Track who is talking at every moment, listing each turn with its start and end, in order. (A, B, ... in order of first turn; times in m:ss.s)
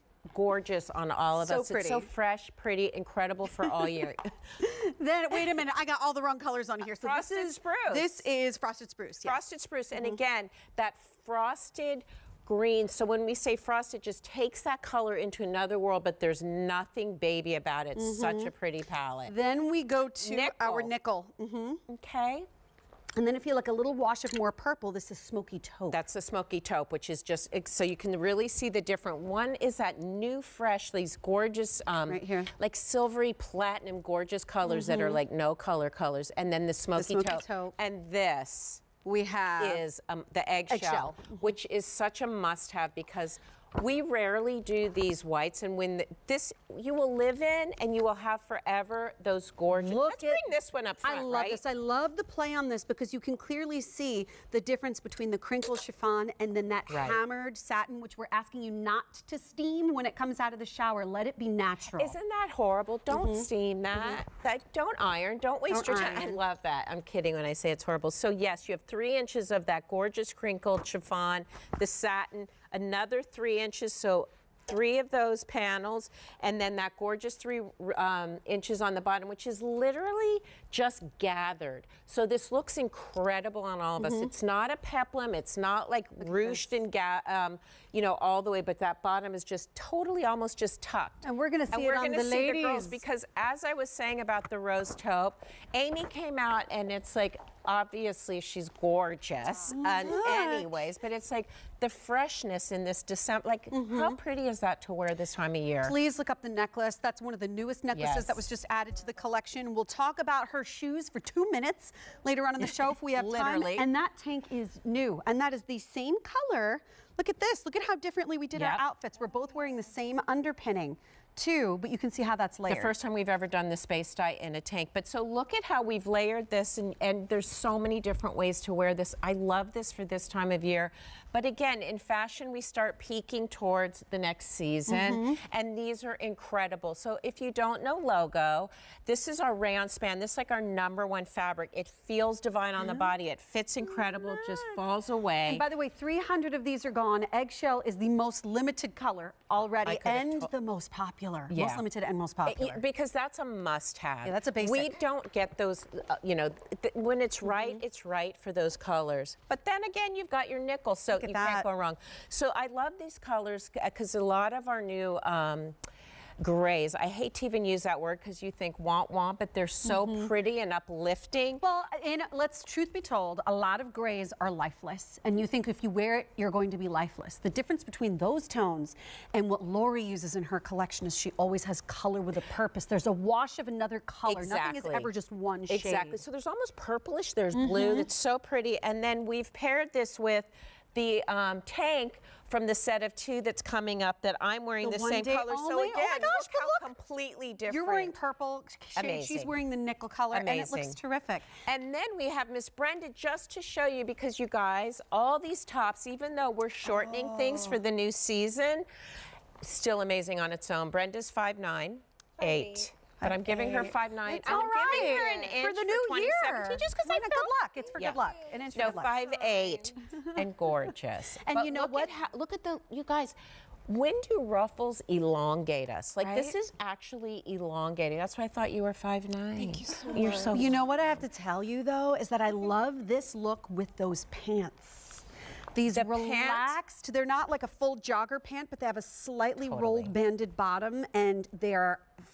0:00.3-0:04.3 A
0:01.4-0:02.1 B
0:03.6-0:03.9 B
0:04.6-0:09.4 B
0:07.0-0:08.2 A
0:09.2-0:19.3 A
0:17.9-0:18.5 B
0:19.3-0:21.8 B
0:20.2-0:20.9 A
0:21.9-0:22.5 A
0:23.2-0:26.0 B
0:25.9-0:38.8 A
0:32.1-0:32.5 B
0:34.6-0:35.2 B
0:37.0-0:37.7 B
0:39.0-0:39.8 B
0:39.6-0:51.6 A
0:40.7-0:41.4 B
0:49.7-0:50.5 B
0:51.0-1:02.2 B
0:56.9-0:57.2 A
1:02.0-1:45.9 A
1:03.1-1:04.2 B
1:05.7-1:06.4 B
1:24.0-1:24.3 B
1:26.2-1:26.7 B
1:31.2-1:33.0 B
1:39.7-1:40.7 B
1:43.7-1:44.2 B
1:45.8-2:02.9 B
1:47.9-1:48.4 A
1:52.6-1:53.9 A
1:58.5-1:58.8 A
2:02.7-2:25.6 A
2:14.9-2:15.4 B
2:22.8-2:23.1 B
2:23.9-2:24.8 B
2:25.5-2:32.8 B
2:29.8-2:30.5 A
2:31.5-2:31.8 A
2:32.4-2:45.8 A
2:34.2-2:35.0 B
2:37.5-2:37.8 B
2:41.1-2:41.7 B
2:46.4-2:51.6 A
2:49.9-2:50.3 B
2:51.6-3:06.2 B
3:04.2-3:05.1 A
3:05.7-3:18.2 A
3:07.5-3:08.1 B
3:14.8-3:16.9 B
3:17.7-3:21.5 B
3:19.0-3:19.5 A
3:20.3-3:21.0 A
3:21.6-3:28.8 A
3:26.9-3:27.8 B
3:29.6-3:38.2 A
3:33.2-3:39.2 B
3:38.7-3:43.4 A
3:40.0-3:40.4 B
3:41.4-3:42.1 B
3:43.9-3:50.8 A
3:46.2-3:46.5 B
3:50.1-3:55.2 B
3:55.7-4:02.1 B
3:55.9-3:56.8 A
3:59.6-4:00.1 A